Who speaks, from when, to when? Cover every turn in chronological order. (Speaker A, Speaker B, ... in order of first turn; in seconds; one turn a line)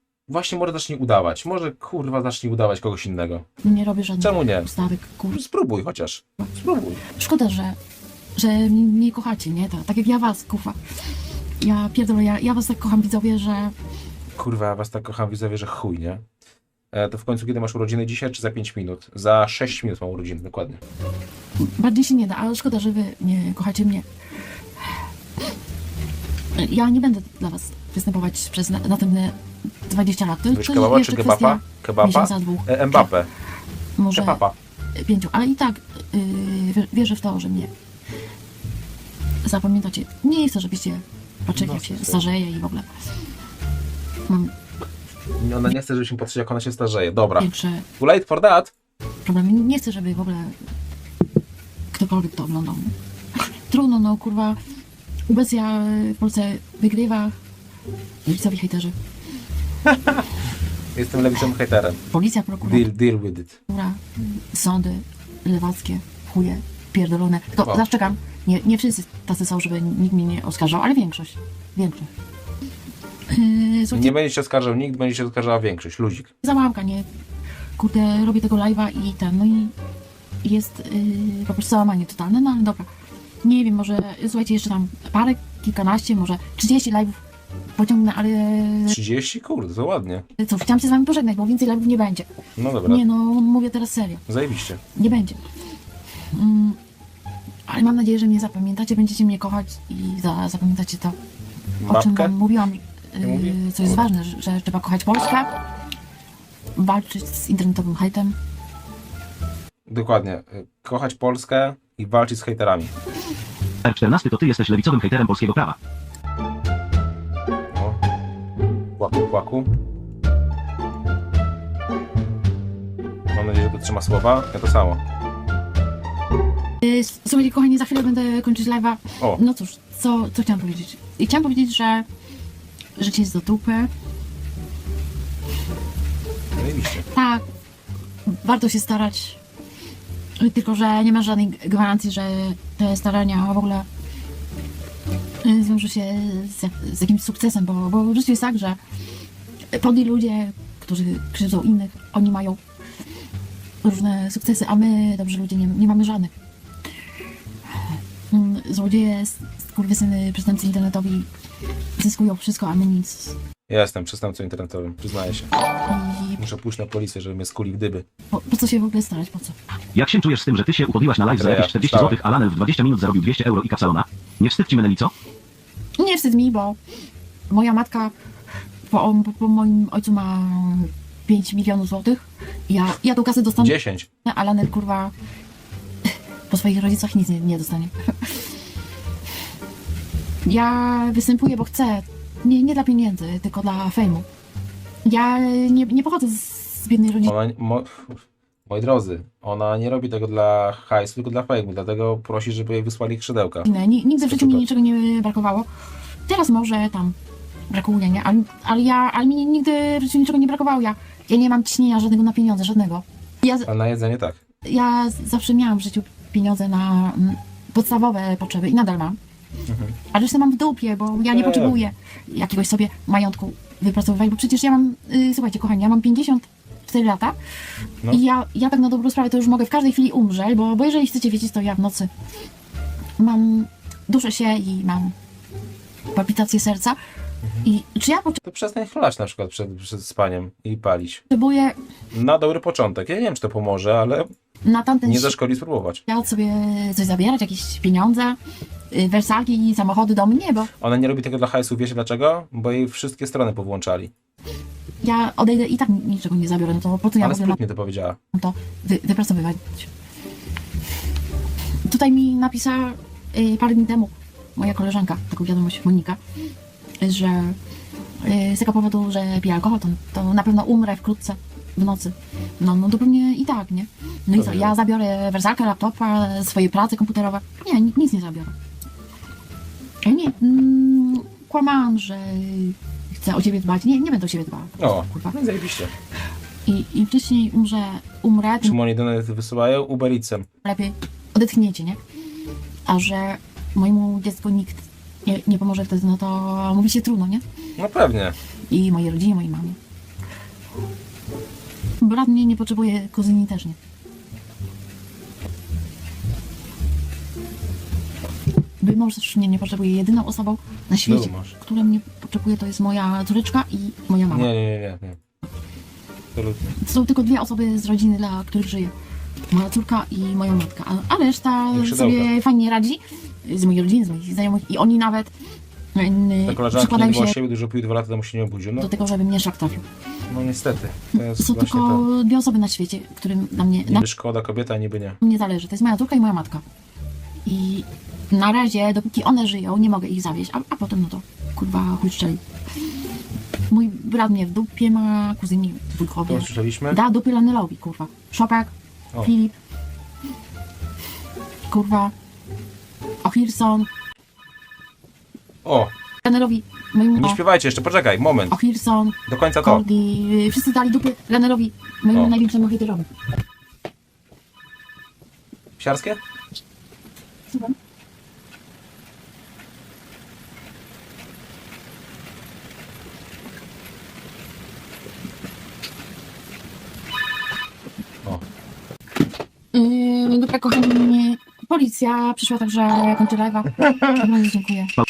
Speaker A: 0.3-3.5
Speaker B: 3.6-5.4
Speaker A: 4.2-4.7
Speaker A: 5.3-7.0
Speaker B: 7.0-7.8
Speaker B: 8.4-10.8
Speaker B: 11.6-13.7
Speaker A: 14.4-16.2
Speaker A: 16.9-20.8
Speaker B: 21.6-24.1
Speaker B: 26.6-33.1
Speaker A: 30.5-33.3
Speaker B: 34.0-34.4
Speaker A: 34.1-34.6
Speaker B: 35.0-37.7
Speaker B: 39.4-42.9
Speaker A: 41.5-42.3
Speaker B: 44.3-44.5
Speaker A: 45.4-48.7
Speaker B: 47.4-47.9
Speaker B: 49.2-50.6
Speaker B: 51.9-54.6
Speaker B: 55.3-57.4
Speaker B: 58.2-59.0
Speaker A: 59.9-60.2
Speaker A: 61.0-62.0
Speaker B: 62.1-62.9
Speaker A: 62.6-63.6
Speaker B: 63.7-72.1
Speaker A: 67.6-67.9
Speaker B: 73.3-74.2
Speaker A: 73.9-76.3
Speaker B: 76.4-77.1
Speaker B: 77.8-79.7
Speaker B: 80.4-82.9
Speaker B: 83.4-87.2
Speaker B: 87.8-89.0
Speaker A: 88.9-90.2
Speaker B: 90.4-92.3
Speaker A: 92.6-93.0
Speaker B: 92.8-94.2
Speaker A: 94.3-94.8
Speaker B: 95.0-95.4
Speaker B: 96.3-96.8
Speaker B: 97.7-101.2
Speaker A: 101.8-102.3
Speaker B: 101.8-105.5
Speaker A: 103.2-104.0
Speaker B: 106.8-108.4
Speaker A: 109.9-112.9
Speaker C: 113.8-115.8
Speaker A: 117.7-118.0
Speaker A: 119.0-119.7
Speaker A: 123.3-125.0
Speaker B: 126.8-132.1
Speaker B: 133.0-133.9
Speaker A: 136.6-137.1
Speaker B: 137.1-137.4
Speaker B: 138.3-139.4
Speaker B: 140.4-143.9
Speaker B: 145.4-148.8
Speaker B: 149.7-152.6
Speaker B: 153.8-156.3
Speaker B: 158.3-161.3
Speaker B: 162.0-163.4
Speaker A: 163.7-165.5
Speaker B: 165.9-166.4
Speaker A: 166.4-168.1
Speaker B: 168.3-169.6
Speaker C: 169.9-175.1
Speaker A: 171.3-172.2
Speaker B: 176.0-176.8
Speaker B: 177.5-178.1
Speaker B: 178.9-185.1
Speaker A: 183.6-184.1
Speaker B: 186.5-188.5
Speaker B: 190.4-194.3
Speaker B: 195.0-197.3
Speaker A: 197.2-203.7
Speaker B: 203.7-205.7
Speaker A: 204.3-204.7
Speaker B: 206.3-207.2
Speaker B: 207.7-213.7
Speaker A: 213.7-214.4
Speaker B: 214.7-219.2
Speaker A: 219.7-220.0
Speaker B: 220.1-227.4
Speaker A: 221.3-221.8
Speaker B: 228.1-232.1
Speaker B: 233.2-235.2
Speaker B: 236.1-237.0
Speaker B: 237.6-238.4
Speaker A: 238.4-241.2
Speaker B: 241.3-241.8
Speaker A: 242.1-244.3
Speaker B: 244.7-245.4
Speaker A: 245.1-246.0
Speaker B: 246.1-248.4
Speaker B: 248.9-250.7
Speaker A: 250.8-254.1
Speaker B: 255.0-257.6
Speaker A: 257.2-258.2
Speaker B: 258.3-259.9
Speaker B: 261.9-266.2
Speaker B: 267.0-267.6
Speaker B: 268.2-278.5
Speaker A: 274.4-274.8
Speaker B: 280.0-285.3
Speaker A: 284.8-285.9
Speaker B: 286.7-288.8
Speaker A: 288.6-290.5
Speaker B: 290.6-292.0
Speaker B: 292.9-297.4
Speaker A: 297.8-298.4
Speaker B: 298.7-299.8
Speaker B: 302.0-303.8
Speaker B: 308.8-314.5
Speaker A: 311.0-311.6
Speaker A: 314.3-315.2
Speaker A: 316.4-316.8
Speaker B: 316.8-318.9
Speaker B: 319.5-325.3
Speaker A: 321.7-322.3
Speaker B: 325.9-327.4
Speaker A: 326.5-328.9
Speaker B: 328.8-329.9
Speaker A: 330.3-332.1
Speaker B: 331.2-334.0
Speaker A: 333.9-335.2
Speaker B: 335.2-336.6
Speaker B: 337.4-342.4
Speaker B: 343.7-349.6
Speaker A: 346.3-347.0
Speaker B: 351.7-352.1
Speaker B: 353.2-353.9
Speaker A: 355.6-355.9
Speaker B: 356.2-357.4
Speaker A: 357.2-358.6
Speaker B: 358.5-363.1
Speaker A: 359.3-359.9
Speaker A: 365.8-366.2
Speaker B: 379.7-385.0
Speaker A: 383.8-384.3